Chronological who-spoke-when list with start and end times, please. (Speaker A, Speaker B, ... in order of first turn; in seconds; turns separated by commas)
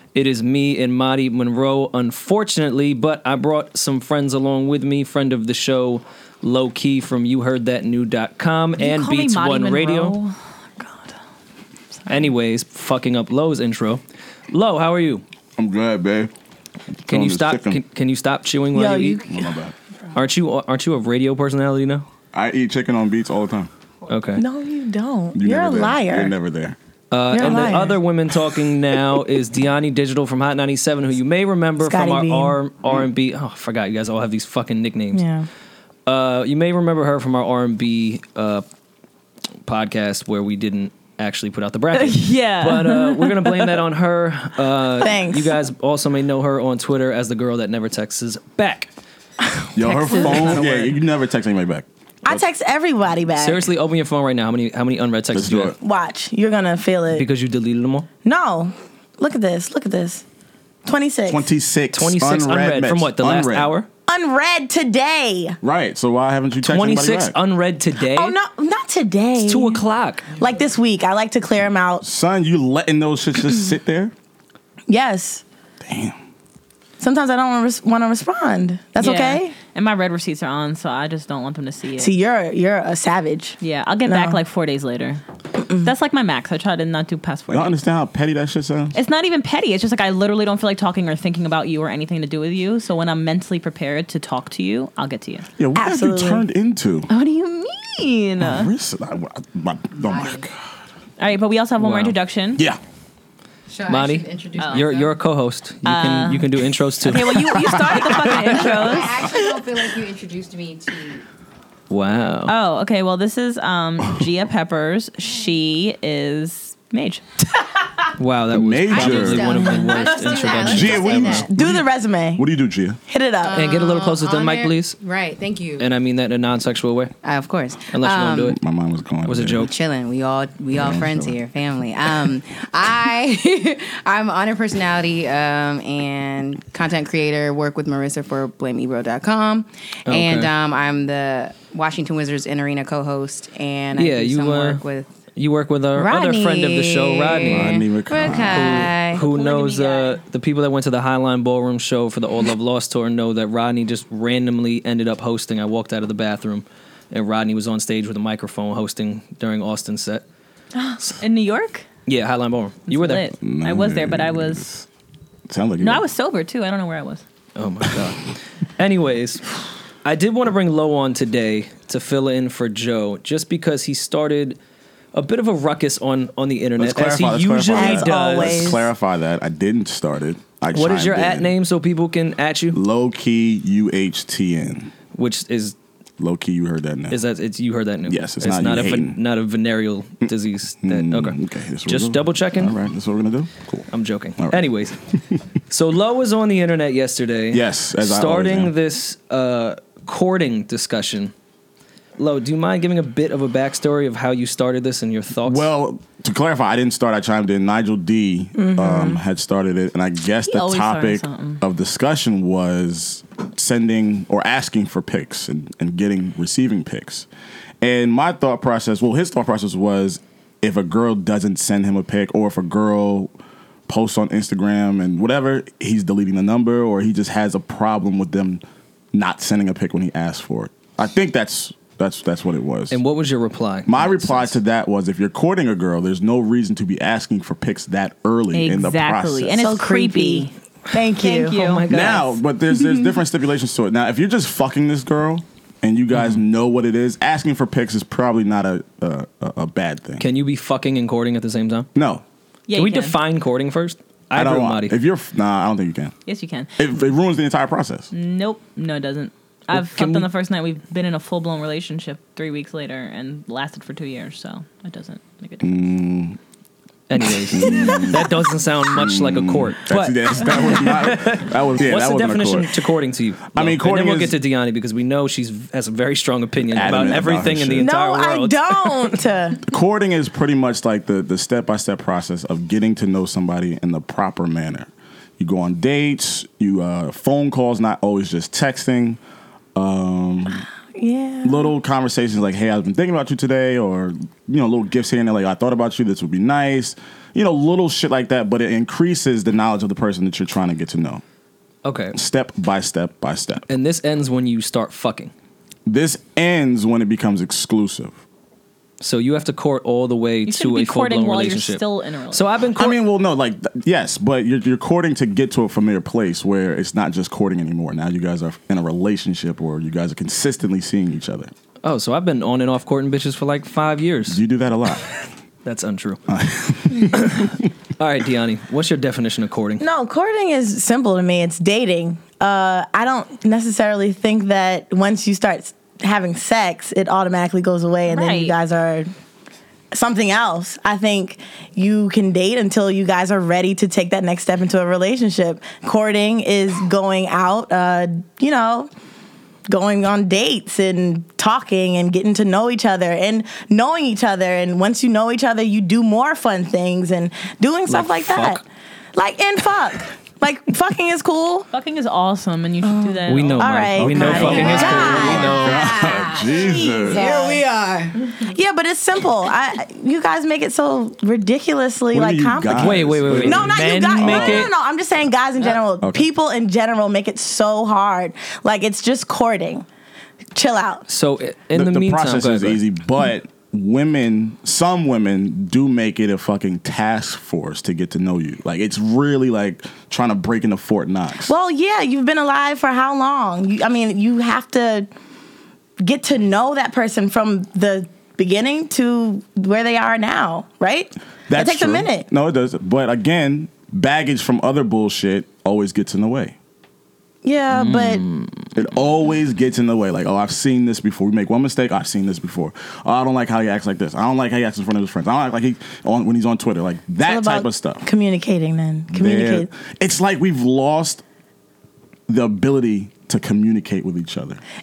Speaker A: 0.1-10.2, Speaker B: 8.8-11.1, Speaker A: 12.1-15.2, Speaker C: 15.6-16.3, Speaker C: 17.1-17.8, Speaker A: 17.1-19.2, Speaker D: 18.7-19.6, Speaker C: 19.3-19.7, Speaker A: 20.1-22.1, Speaker C: 22.3-23.7, Speaker A: 24.1-24.4, Speaker D: 24.4-26.3, Speaker C: 25.3-26.8, Speaker A: 27.1-35.2, Speaker D: 27.3-28.0, Speaker C: 27.5-27.7, Speaker D: 31.8-32.6, Speaker D: 35.1-35.5, Speaker A: 36.0-38.6, Speaker A: 39.7-48.9, Speaker B: 41.9-43.8, Speaker D: 45.0-45.5, Speaker D: 49.5-50.7, Speaker C: 49.8-52.4, Speaker B: 50.1-50.5, Speaker A: 50.1-51.0, Speaker D: 52.2-53.7, Speaker A: 53.4-55.8, Speaker C: 55.3-55.8, Speaker D: 55.8-57.3, Speaker A: 57.1-58.1, Speaker D: 58.2-60.2, Speaker D: 60.9-61.5, Speaker C: 61.3-63.7, Speaker A: 61.9-63.9, Speaker D: 64.1-65.6, Speaker C: 65.6-67.4, Speaker A: 66.7-68.4, Speaker D: 68.0-69.8, Speaker A: 69.4-70.3, Speaker D: 70.3-72.0, Speaker C: 72.0-74.1, Speaker D: 74.9-75.4, Speaker C: 75.8-76.2, Speaker D: 77.0-79.5, Speaker B: 79.0-82.1, Speaker D: 82.0-84.4, Speaker B: 83.6-85.2, Speaker B: 85.8-87.8, Speaker C: 87.5-89.0, Speaker B: 88.9-95.5, Speaker C: 95.6-97.1, Speaker D: 95.7-96.5, Speaker B: 97.1-98.7, Speaker C: 98.4-100.6, Speaker E: 100.0-100.5, Speaker B: 101.2-102.6, Speaker A: 101.8-102.2, Speaker E: 103.7-105.1, Speaker A: 103.9-109.0, Speaker B: 104.6-104.8, Speaker B: 105.8-106.5, Speaker B: 107.0-109.3, Speaker C: 107.6-108.3, Speaker E: 108.5-111.2, Speaker A: 111.9-112.5, Speaker B: 112.5-117.2, Speaker A: 118.2-121.5, Speaker C: 118.5-119.8, Speaker E: 118.9-121.7, Speaker B: 120.2-120.8, Speaker C: 120.7-121.8, Speaker D: 121.5-122.5, Speaker C: 122.4-123.0, Speaker D: 123.1-123.7, Speaker E: 123.5-125.9, Speaker A: 123.5-125.0, Speaker A: 125.8-127.1, Speaker E: 127.2-128.5, Speaker A: 127.9-128.6, Speaker C: 128.5-129.7, Speaker A: 129.2-129.7, Speaker E: 129.6-145.1, Speaker C: 130.7-131.4, Speaker A: 140.1-140.5, Speaker A: 144.0-144.8, Speaker A: 145.3-147.8, Speaker E: 146.0-150.2, Speaker C: 147.5-148.9, Speaker A: 148.4-160.2, Speaker B: 161.2-161.9, Speaker A: 162.1-163.3, Speaker B: 162.9-164.7, Speaker C: 163.4-164.8, Speaker C: 165.5-166.1, Speaker B: 165.8-167.2, Speaker A: 167.6-169.4, Speaker A: 170.1-174.6, Speaker A: 175.1-178.8, Speaker C: 176.8-181.5, Speaker D: 177.7-178.9, Speaker A: 180.7-182.8, Speaker C: 182.7-184.9, Speaker A: 185.1-185.8, Speaker C: 186.2-187.2, Speaker A: 187.1-192.8, Speaker C: 188.1-189.2, Speaker C: 190.8-194.7, Speaker A: 193.9-195.0, Speaker A: 195.7-201.3, Speaker C: 197.5-198.7, Speaker A: 202.2-205.7, Speaker C: 205.4-217.3, Speaker D: 208.6-209.2, Speaker B: 210.5-211.6, Speaker C: 217.8-223.3, Speaker C: 223.9-233.0, Speaker A: 232.9-234.6, Speaker C: 233.9-239.6, Speaker B: 238.5-240.5, Speaker D: 239.6-241.8, Speaker B: 241.2-241.9, Speaker A: 241.4-242.4, Speaker C: 241.9-250.2, Speaker A: 246.1-246.4, Speaker A: 250.2-251.9, Speaker C: 251.9-252.2, Speaker B: 252.7-253.2, Speaker A: 252.7-255.0, Speaker C: 254.3-256.1, Speaker B: 256.2-256.8, Speaker C: 256.8-258.1, Speaker B: 258.1-265.8, Speaker A: 259.7-260.3, Speaker C: 265.6-266.4, Speaker A: 267.1-279.2, Speaker C: 267.5-268.2, Speaker C: 268.9-272.7, Speaker C: 273.5-274.4, Speaker C: 276.6-277.9, Speaker D: 277.8-279.6, Speaker C: 279.7-289.2, Speaker C: 289.8-290.6, Speaker D: 290.9-291.7, Speaker C: 291.4-301.2, Speaker A: 301.9-302.2, Speaker C: 302.1-303.7, Speaker A: 303.7-305.3, Speaker C: 305.9-308.2, Speaker A: 309.0-313.0, Speaker B: 310.5-312.5, Speaker C: 312.8-321.5, Speaker A: 321.8-324.4, Speaker C: 324.3-325.2, Speaker A: 325.6-326.2, Speaker C: 326.3-327.6, Speaker A: 327.1-329.9, Speaker D: 329.8-339.1, Speaker B: 338.1-338.6, Speaker D: 339.9-348.9, Speaker D: 349.7-358.6, Speaker A: 357.9-358.6, Speaker D: 359.1-361.7, Speaker B: 361.7-365.2, Speaker D: 362.8-365.7, Speaker A: 363.3-365.8, Speaker C: 364.0-367.4, Speaker E: 364.6-368.2, Speaker D: 366.4-367.6, Speaker D: 368.4-379.9, Speaker C: 372.1-374.7, Speaker A: 372.8-374.7, Speaker D: 380.6-381.1, Speaker A: 381.1-382.8, Speaker C: 381.7-391.5, Speaker D: 391.4-395.1, Speaker D: 396.0-402.3, Speaker C: 401.5-406.6, Speaker D: 407.4-408.2, Speaker A: 407.7-408.5, Speaker C: 408.8-418.0, Speaker D: 417.2-419.7, Speaker C: 419.1-421.2, Speaker C: 422.3-424.6